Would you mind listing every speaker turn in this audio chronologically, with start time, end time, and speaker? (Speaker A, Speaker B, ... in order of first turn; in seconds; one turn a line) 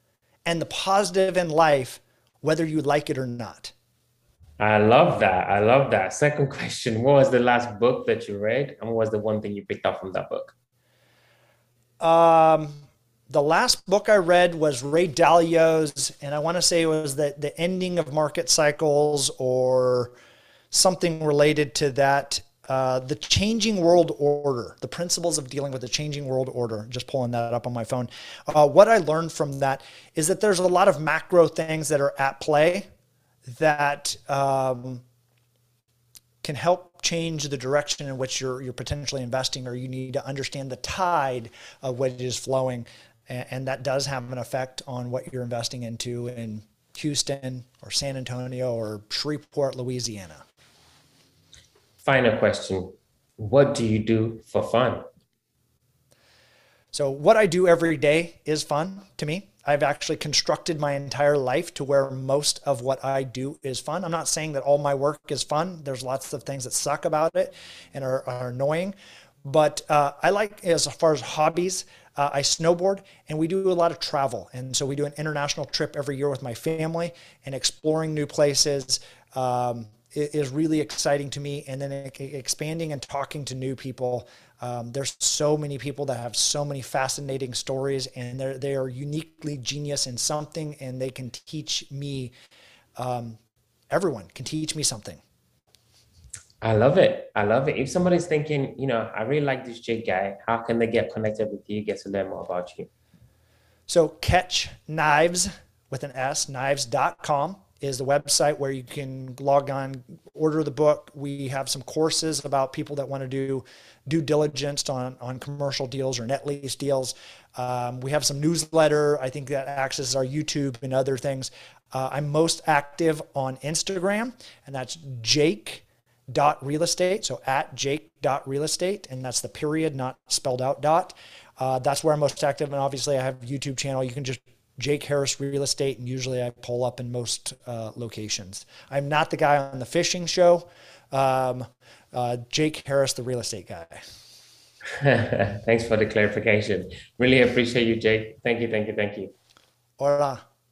Speaker A: 0.5-3.7
Speaker B: 4.6-10.5
Speaker A: 12.0-20.1
Speaker A: 20.7-32.9
Speaker A: 33.5-35.0
Speaker A: 36.4-50.4
Speaker B: 52.0-55.0
Speaker A: 56.9-92.3
Speaker A: 93.0-93.4
Speaker A: 93.9-95.2
Speaker B: 96.6-102.9
Speaker A: 103.9-144.0
Speaker B: 144.9-149.3
Speaker A: 150.0-150.4